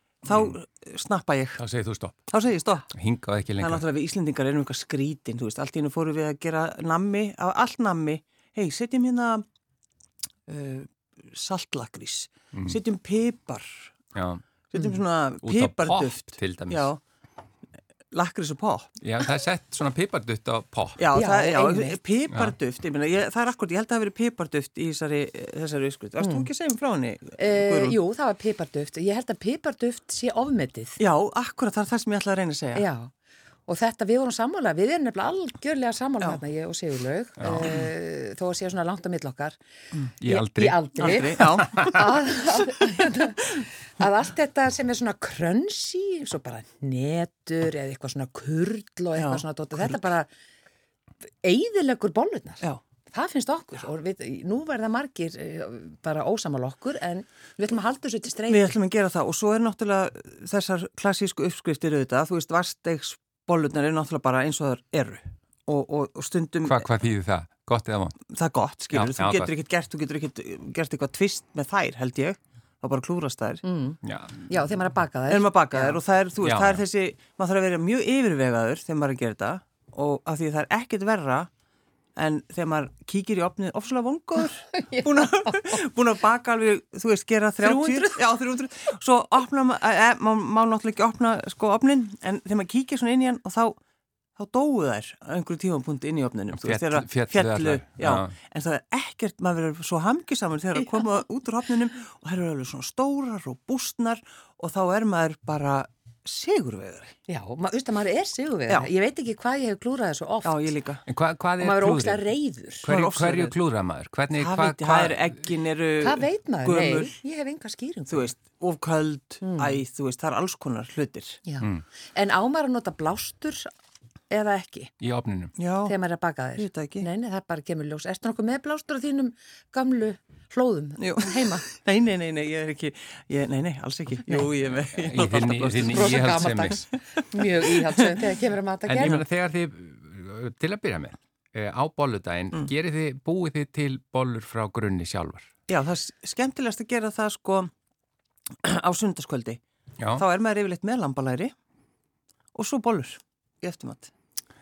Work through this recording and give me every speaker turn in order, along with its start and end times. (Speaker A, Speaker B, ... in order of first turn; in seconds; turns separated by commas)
Speaker A: 0.2-1.6, Speaker B: 1.6-2.2, Speaker A: 2.3-2.9, Speaker B: 2.9-3.8, Speaker A: 3.6-9.4, Speaker A: 10.5-13.9, Speaker B: 12.5-12.8, Speaker B: 14.1-14.4, Speaker A: 14.7-17.0, Speaker B: 15.4-16.9, Speaker A: 18.1-18.9, Speaker B: 19.0-21.0, Speaker A: 21.0-28.0, Speaker C: 21.1-22.0, Speaker C: 26.2-26.5, Speaker C: 27.4-31.0, Speaker A: 31.0-32.8, Speaker C: 32.8-33.1, Speaker C: 33.7-39.6, Speaker B: 37.4-37.8, Speaker B: 40.2-40.8, Speaker C: 40.2-50.3, Speaker A: 41.0-42.0, Speaker B: 41.4-42.0, Speaker A: 49.1-50.0, Speaker C: 51.4-58.8, Speaker A: 58.5-66.9, Speaker B: 66.6-68.2, Speaker A: 68.3-73.6, Speaker B: 68.9-69.5, Speaker C: 73.6-76.0, Speaker B: 74.0-74.6, Speaker A: 75.3-81.5, Speaker B: 76.4-76.8, Speaker A: 82.2-93.8, Speaker C: 84.7-85.6, Speaker C: 87.6-88.2, Speaker A: 94.4-107.1, Speaker B: 96.5-98.3, Speaker C: 107.3-110.7, Speaker A: 110.5-111.0, Speaker B: 111.1-112.3, Speaker C: 111.6-112.9, Speaker B: 112.8-115.2, Speaker A: 112.8-113.5, Speaker A: 114.3-117.2, Speaker C: 116.0-118.3, Speaker A: 118.1-121.4, Speaker C: 119.4-119.8, Speaker C: 121.5-123.7, Speaker C: 124.3-124.9, Speaker B: 125.0-125.5, Speaker A: 125.6-126.0, Speaker C: 125.8-131.7, Speaker A: 126.6-127.0, Speaker A: 131.0-138.2, Speaker B: 135.0-136.8, Speaker C: 135.8-139.2, Speaker B: 138.8-145.5, Speaker A: 145.7-147.7, Speaker A: 148.6-149.6, Speaker B: 150.0-150.2, Speaker A: 150.2-151.5, Speaker A: 152.5-154.1